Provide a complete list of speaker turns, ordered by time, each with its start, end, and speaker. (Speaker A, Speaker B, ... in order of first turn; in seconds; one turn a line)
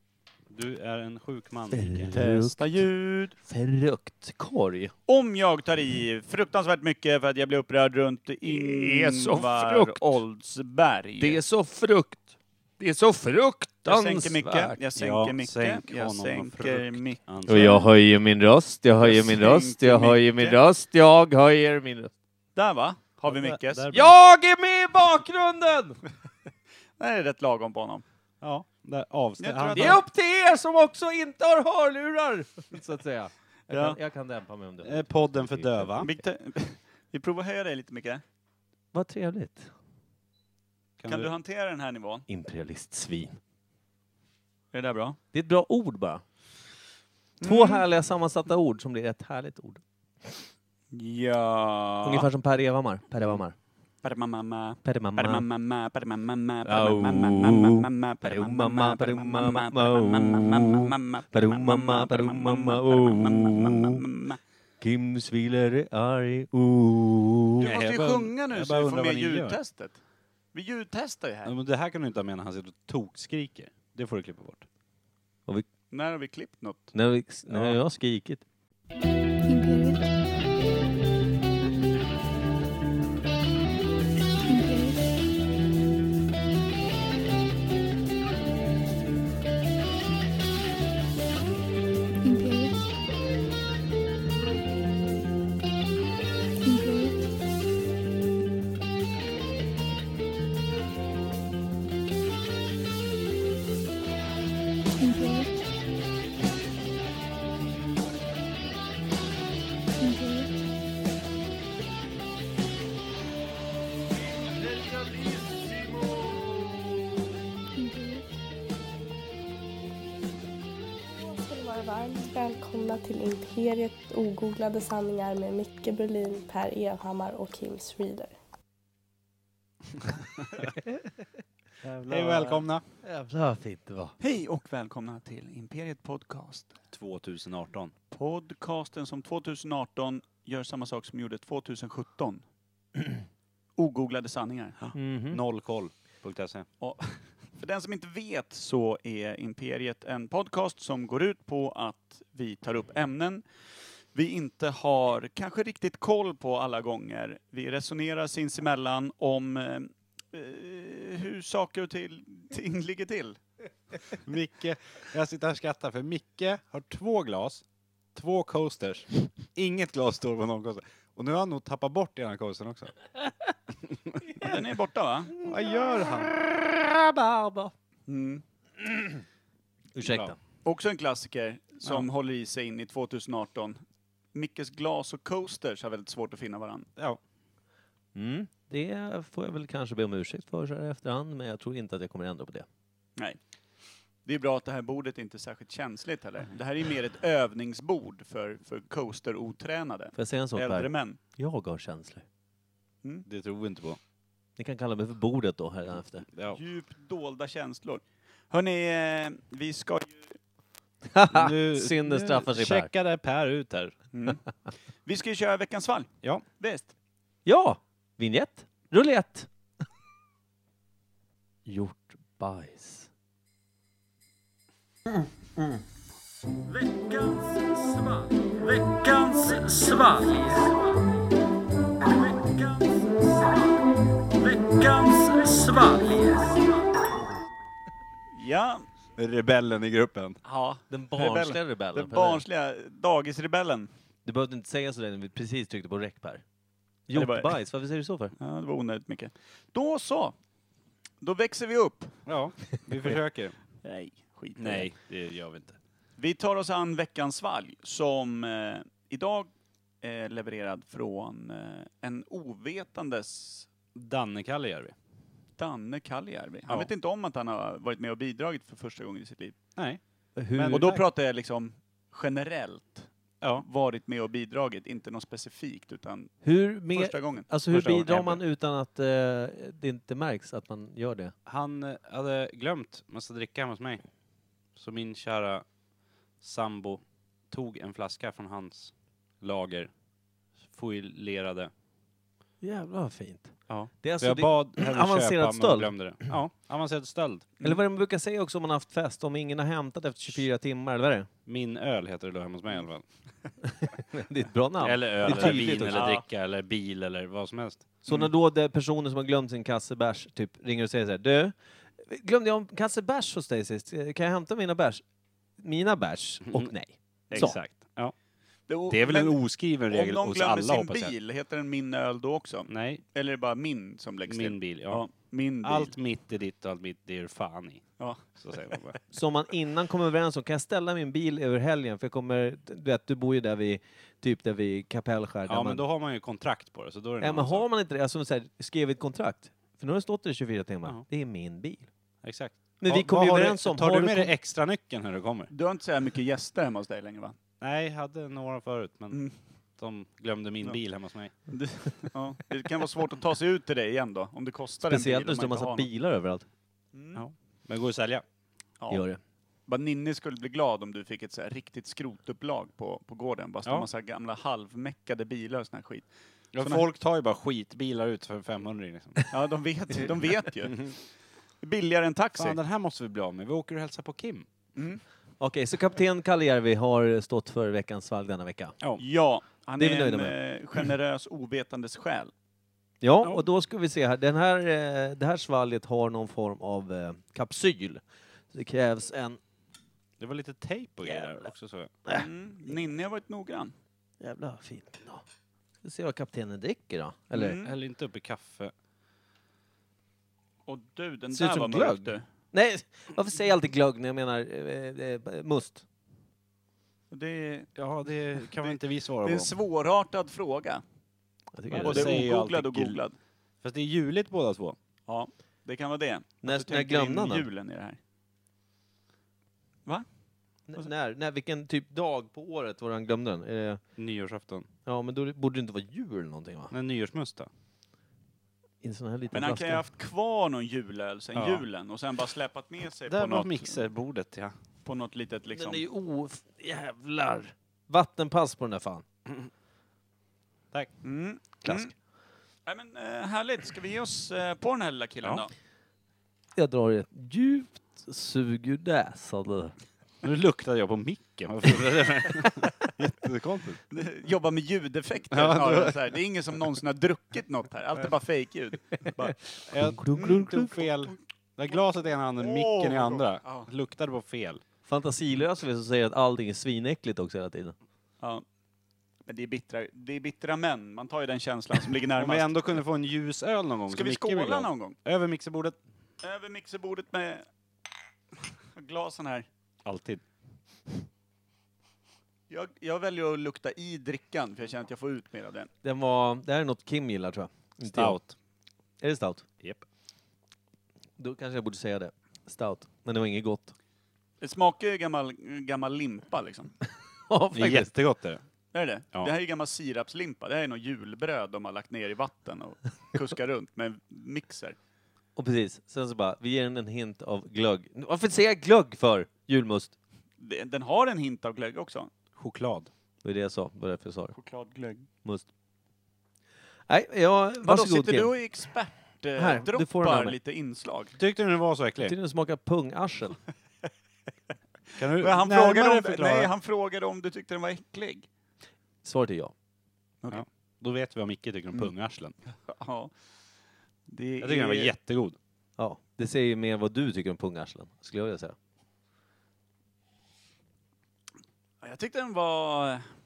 Speaker A: 0.5-2.2
Speaker B: 1.7-2.8
Speaker C: 2.1-3.3
Speaker B: 3.4-4.9
Speaker C: 5.1-11.4
Speaker B: 8.5-10.2
Speaker B: 11.2-14.8
Speaker C: 13.8-17.8
Speaker A: 14.9-17.8
Speaker B: 17.5-22.1
Speaker C: 19.0-20.6
Speaker C: 22.6-23.9
Speaker A: 23.2-24.1
Speaker B: 23.9-26.0
Speaker C: 27.0-28.0
Speaker A: 28.4-30.0
Speaker C: 29.4-30.0
Speaker B: 29.7-36.2
Speaker C: 33.7-34.0
Speaker A: 34.8-36.1
Speaker C: 36.0-38.2
Speaker B: 38.9-39.7
Speaker A: 41.0-41.3
Speaker C: 41.1-42.2
Speaker B: 42.3-43.4
Speaker C: 44.7-45.2
Speaker B: 45.3-46.2
Speaker C: 47.4-47.8
Speaker B: 47.4-50.4
Speaker C: 50.9-52.3
Speaker B: 52.0-53.5
Speaker C: 54.0-64.4
Speaker B: 54.8-55.4
Speaker B: 56.6-64.0
Speaker B: 64.8-67.6
Speaker C: 67.6-70.0
Speaker A: 67.6-69.6
Speaker C: 70.5-71.5
Speaker A: 71.4-74.7
Speaker C: 75.9-76.9
Speaker B: 76.9-78.4
Speaker A: 77.5-77.8
Speaker D: 79.5-80.1
Speaker D: 84.5-85.1
Speaker D: 92.2-92.9
Speaker D: 96.6-97.1
Speaker D: 105.0-105.5
Speaker D: 110.0-110.5
Speaker D: 117.8-118.2
Speaker E: 121.1-128.3
Speaker A: 132.0-132.8
Speaker C: 132.1-132.6
Speaker B: 133.0-134.1
Speaker C: 134.2-136.8
Speaker A: 136.9-137.9
Speaker C: 138.1-142.4
Speaker C: 143.8-144.8
Speaker B: 144.9-145.4
Speaker A: 145.3-146.7
Speaker C: 146.8-153.4
Speaker C: 154.1-163.4
Speaker A: 164.2-167.6
Speaker A: 168.1-172.9
Speaker A: 173.9-174.2
Speaker C: 174.3-175.3
Speaker A: 175.4-177.7
Speaker C: 178.1-178.4
Speaker B: 179.9-180.3
Speaker A: 180.0-180.3
Speaker C: 180.6-183.8
Speaker C: 184.3-186.9
Speaker B: 188.1-192.7
Speaker C: 194.2-201.2
Speaker B: 200.1-202.2
Speaker A: 203.2-204.0
Speaker B: 204.6-206.2
Speaker A: 206.3-206.6
Speaker C: 206.5-210.3
Speaker B: 211.1-212.9
Speaker A: 211.3-214.0
Speaker C: 214.1-214.4
Speaker C: 215.0-216.9
Speaker B: 217.4-219.5
Speaker B: 221.7-223.1
Speaker C: 226.7-231.0
Speaker C: 232.0-233.8
Speaker C: 234.3-236.8
Speaker C: 238.3-238.8
Speaker A: 239.2-240.4
Speaker C: 240.4-243.9
Speaker B: 240.9-242.4
Speaker B: 244.2-246.4
Speaker B: 247.1-248.3
Speaker C: 247.1-247.5
Speaker C: 248.4-250.3
Speaker C: 251.2-252.2
Speaker A: 252.3-253.6
Speaker C: 253.8-254.9
Speaker A: 254.6-255.8
Speaker C: 256.2-259.5
Speaker C: 260.0-263.7
Speaker A: 263.9-264.9
Speaker C: 265.6-269.6
Speaker B: 270.4-271.0
Speaker A: 270.5-270.9
Speaker C: 270.7-276.3
Speaker A: 273.4-273.6
Speaker B: 276.4-281.3
Speaker C: 276.9-277.5
Speaker A: 277.7-278.4
Speaker A: 281.4-284.0
Speaker A: 284.7-285.7
Speaker A: 286.4-289.9
Speaker A: 290.6-291.7
Speaker B: 292.6-295.9
Speaker A: 293.7-297.5
Speaker B: 297.6-301.3
Speaker A: 301.5-303.1
Speaker B: 304.1-306.1
Speaker A: 304.8-308.0
Speaker C: 305.2-306.2
Speaker B: 308.0-315.0
Speaker B: 315.6-317.6
Speaker A: 317.3-318.1
Speaker C: 318.7-325.9
Speaker A: 318.9-321.1
Speaker A: 322.7-323.0
Speaker A: 324.3-325.0
Speaker A: 325.6-329.0
Speaker B: 329.1-335.8
Speaker A: 335.4-337.6
Speaker B: 337.2-341.9
Speaker A: 342.2-345.5
Speaker B: 342.8-344.3
Speaker C: 345.5-347.3
Speaker A: 347.6-349.2
Speaker C: 349.1-349.4
Speaker A: 349.8-351.3
Speaker C: 351.5-355.9
Speaker B: 354.8-356.4
Speaker C: 356.9-357.2
Speaker A: 357.1-358.2
Speaker B: 358.9-359.2
Speaker C: 359.7-366.8
Speaker A: 366.5-369.3
Speaker C: 369.3-371.0
Speaker C: 371.6-372.6
Speaker A: 372.4-374.5
Speaker C: 374.7-375.0
Speaker B: 375.4-378.7
Speaker C: 379.0-382.3
Speaker B: 379.8-380.3
Speaker B: 383.0-389.4
Speaker A: 390.2-391.9
Speaker C: 391.0-391.3
Speaker C: 392.1-393.7
Speaker B: 394.2-395.2
Speaker B: 395.8-397.5
Speaker C: 397.3-397.7
Speaker A: 397.5-398.7
Speaker C: 400.7-402.2
Speaker B: 401.3-405.8
Speaker C: 407.1-407.7
Speaker A: 407.8-409.5
Speaker C: 408.5-410.8
Speaker B: 411.5-412.1
Speaker A: 411.7-413.0
Speaker C: 411.8-413.1
Speaker A: 413.6-414.8
Speaker C: 415.1-418.0
Speaker B: 416.4-417.4
Speaker B: 420.7-423.8
Speaker A: 424.0-424.7
Speaker B: 424.9-426.7
Speaker A: 426.7-427.5
Speaker B: 428.8-429.8
Speaker C: 429.3-433.8
Speaker A: 431.3-431.6
Speaker A: 433.1-434.5
Speaker C: 434.8-435.8
Speaker B: 435.5-439.0
Speaker C: 441.0-441.9
Speaker B: 441.6-441.9
Speaker C: 442.6-445.5
Speaker B: 446.6-449.8
Speaker A: 450.2-453.8
Speaker C: 453.9-459.4
Speaker A: 455.3-456.0
Speaker A: 459.7-464.6
Speaker B: 459.8-460.7
Speaker C: 460.1-460.9
Speaker C: 462.4-463.7
Speaker B: 464.9-467.8
Speaker C: 469.3-472.5
Speaker A: 472.2-475.8
Speaker C: 473.9-475.0
Speaker C: 476.2-477.4
Speaker C: 478.8-479.5
Speaker A: 479.8-480.2
Speaker C: 482.5-485.7
Speaker B: 485.8-488.2
Speaker A: 487.8-488.3
Speaker B: 489.0-489.4
Speaker B: 491.2-493.7
Speaker C: 494.4-496.7
Speaker B: 497.3-497.9
Speaker A: 497.5-498.4
Speaker C: 498.7-504.8
Speaker B: 505.4-509.9
Speaker C: 510.4-512.1
Speaker A: 512.4-512.9
Speaker B: 513.2-514.3
Speaker C: 514.3-515.1
Speaker B: 516.9-518.3
Speaker C: 517.6-521.1
Speaker B: 519.4-520.4
Speaker A: 521.2-522.1
Speaker B: 522.0-523.4
Speaker A: 525.0-526.5
Speaker C: 525.2-528.3
Speaker B: 529.0-529.5
Speaker A: 530.3-532.3
Speaker C: 532.7-533.1
Speaker C: 534.1-534.9
Speaker A: 534.4-535.4
Speaker B: 535.8-538.5
Speaker C: 541.8-543.0